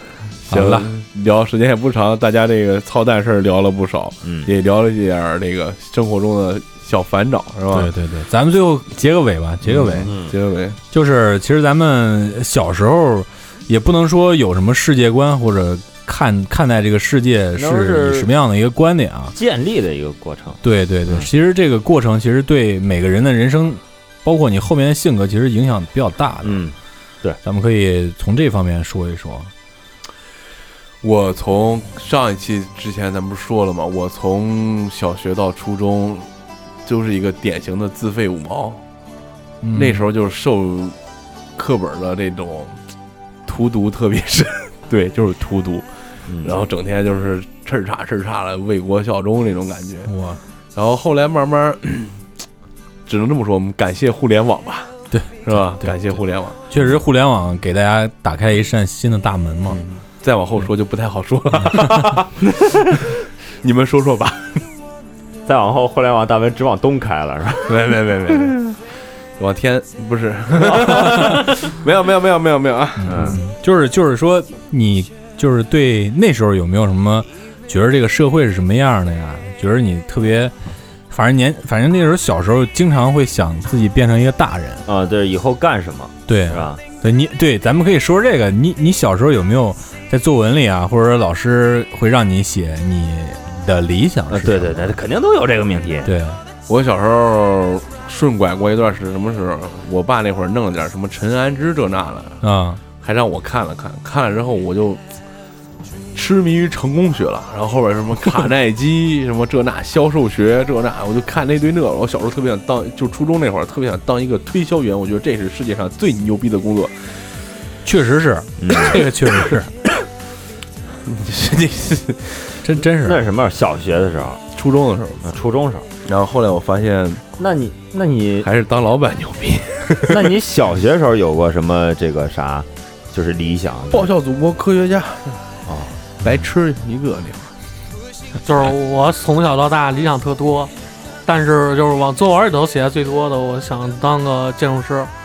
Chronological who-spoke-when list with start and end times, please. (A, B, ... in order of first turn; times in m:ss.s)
0:00.4-0:07.9 A
0:00.5-0:00.9 B
0:04.2-0:04.5 C
0:07.7-0:10.1 B
0:09.6-0:10.8 A
0:10.0-0:10.4 C
0:10.9-0:19.4 B
0:17.6-0:18.3 C
0:19.4-0:21.3 C
0:20.6-0:26.6 B
0:26.4-0:27.4 C
0:27.4-0:29.5 B
0:31.0-0:36.3 A
0:36.8-0:38.8 A
0:39.6-0:40.1 B
0:39.7-0:41.0 A
0:41.6-0:42.8 A
0:43.5-0:45.8 A
0:46.3-0:46.6 C
0:46.4-0:50.1 A
0:50.1-0:50.4 B
0:50.7-0:52.2 A
0:53.1-0:54.9 A
0:55.1-0:56.0 B
0:55.4-0:56.8 A
0:56.7-0:59.8 B
0:59.7-1:03.0 A
1:01.6-1:02.0 B
1:03.6-1:04.6 A
1:05.5-1:07.9 C
1:07.7-1:08.8 A
1:09.4-1:13.4 A
1:13.0-1:20.6 B
1:13.1-1:13.4 C
1:21.1-1:24.8 B
1:24.9-1:26.8 C
1:26.3-1:35.0 B
1:34.3-1:36.1 C
1:36.0-1:36.4 B
1:36.7-1:42.4 A
1:42.4-1:42.8 B
1:43.0-1:45.0 A
1:46.1-1:57.1 A
1:57.8-1:59.7 B
1:58.6-1:59.0 C
1:59.0-1:59.7 A
2:01.1-2:02.6 A
2:02.6-2:03.2 B
2:03.0-2:04.4 C
2:04.5-2:05.3 A
2:05.2-2:05.9 C
2:06.0-2:07.2 A
2:07.4-2:08.5 C
2:08.4-2:10.3 A
2:10.1-2:14.1 C
2:13.9-2:15.4 A
2:15.7-2:16.0 C
2:16.2-2:17.5 A
2:18.4-2:20.7 D
2:21.3-2:25.1 D